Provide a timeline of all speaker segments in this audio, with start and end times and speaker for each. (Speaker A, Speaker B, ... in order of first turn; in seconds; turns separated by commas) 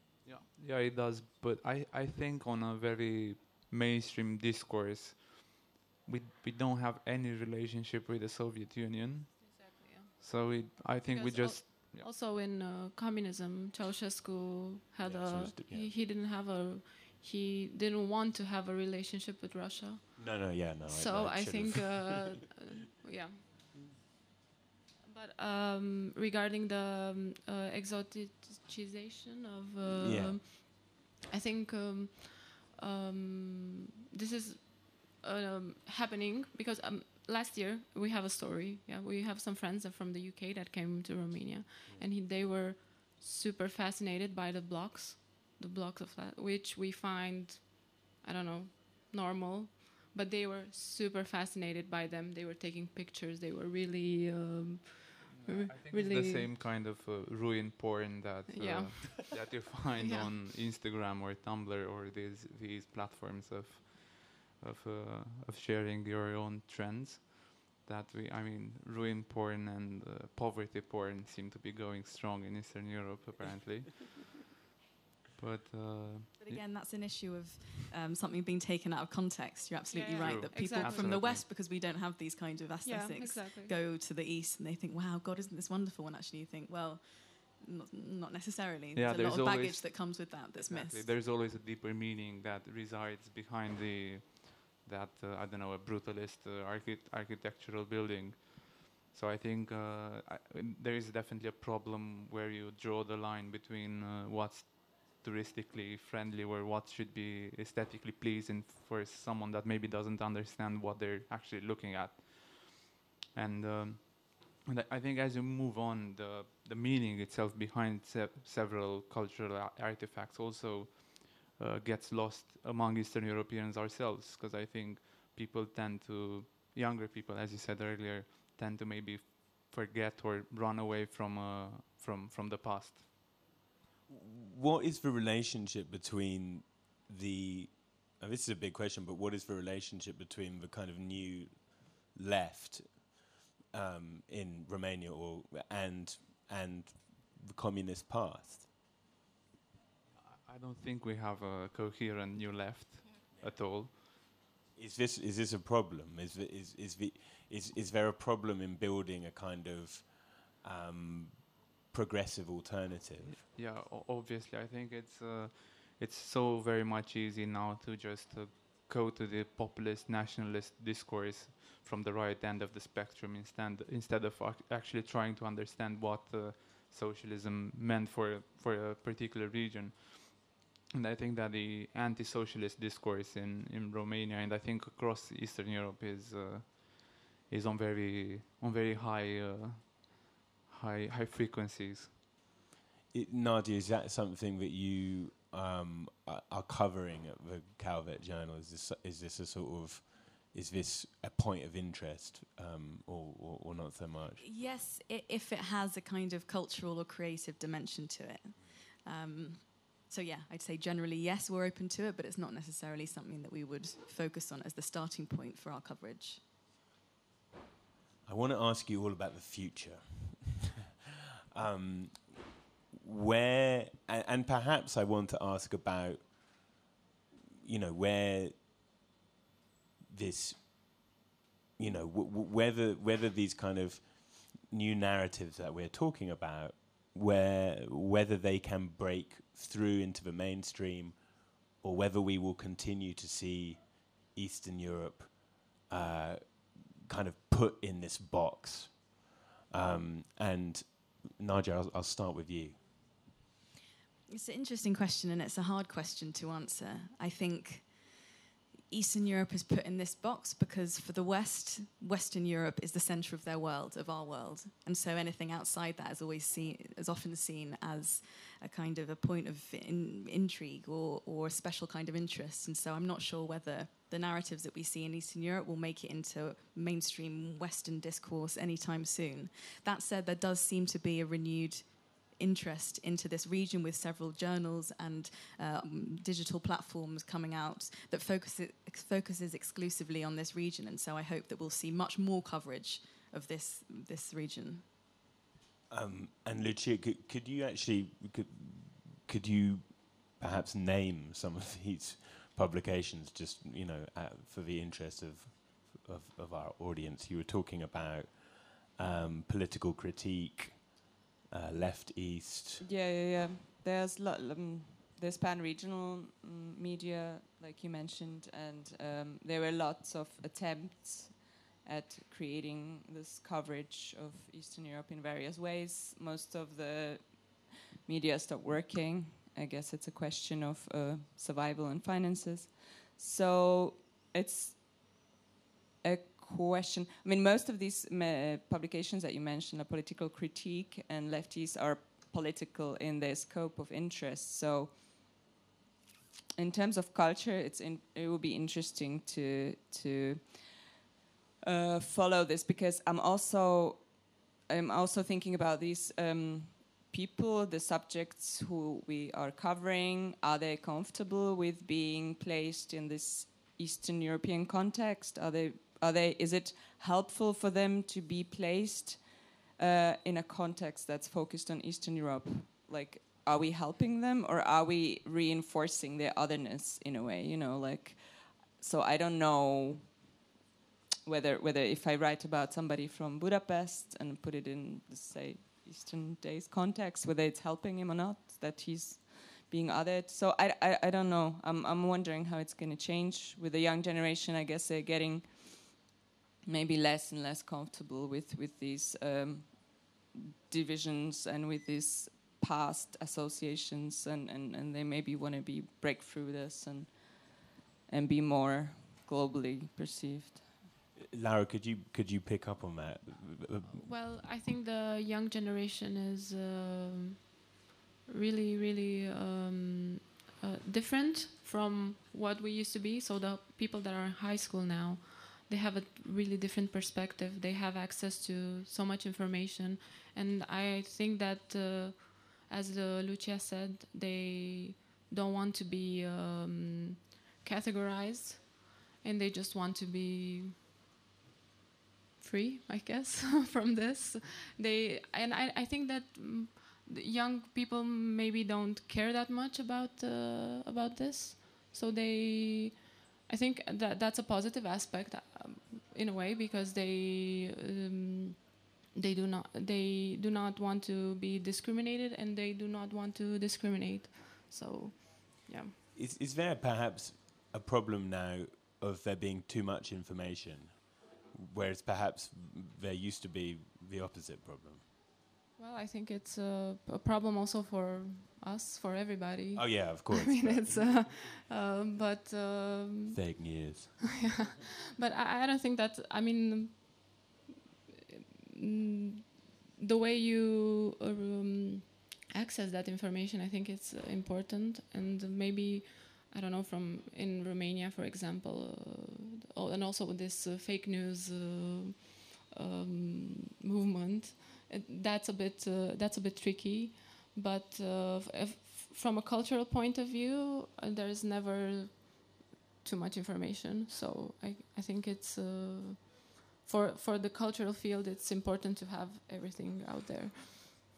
Speaker A: 0.2-12.1, Speaker B: 9.4-10.2, Speaker B: 11.1-23.6, Speaker C: 15.0-15.9, Speaker C: 20.2-22.2, Speaker B: 25.1-56.5, Speaker C: 29.9-30.4, Speaker A: 55.3-74.4, Speaker B: 58.5-59.4, Speaker B: 60.0-60.3, Speaker A: 75.4-76.6, Speaker D: 76.4-91.1, Speaker B: 79.9-81.1, Speaker A: 80.2-81.5, Speaker B: 82.8-83.8, Speaker A: 89.0-133.2, Speaker C: 134.1-148.7, Speaker A: 150.2-153.9, Speaker C: 153.3-154.2, Speaker C: 154.8-163.4, Speaker A: 163.2-192.2, Speaker C: 193.1-204.4, Speaker D: 204.4-216.4, Speaker C: 218.3-220.7, Speaker C: 221.5-226.7, Speaker C: 227.6-228.8, Speaker C: 230.1-231.2, Speaker C: 231.8-252.9, Speaker D: 254.3-258.1, Speaker D: 258.9-294.9, Speaker C: 295.9-312.8, Speaker E: 312.8-335.1, Speaker E: 336.0-345.3, Speaker E: 346.6-350.9, Speaker E: 351.6-380.3, Speaker E: 381.2-396.0, Speaker E: 396.7-410.8, Speaker C: 411.2-414.1, Speaker B: 413.8-417.7, Speaker B: 418.3-440.8, Speaker B: 442.4-465.9, Speaker C: 466.1-475.1, Speaker B: 475.8-487.6, Speaker C: 479.8-481.4, Speaker C: 483.3-484.4, Speaker B: 488.8-520.9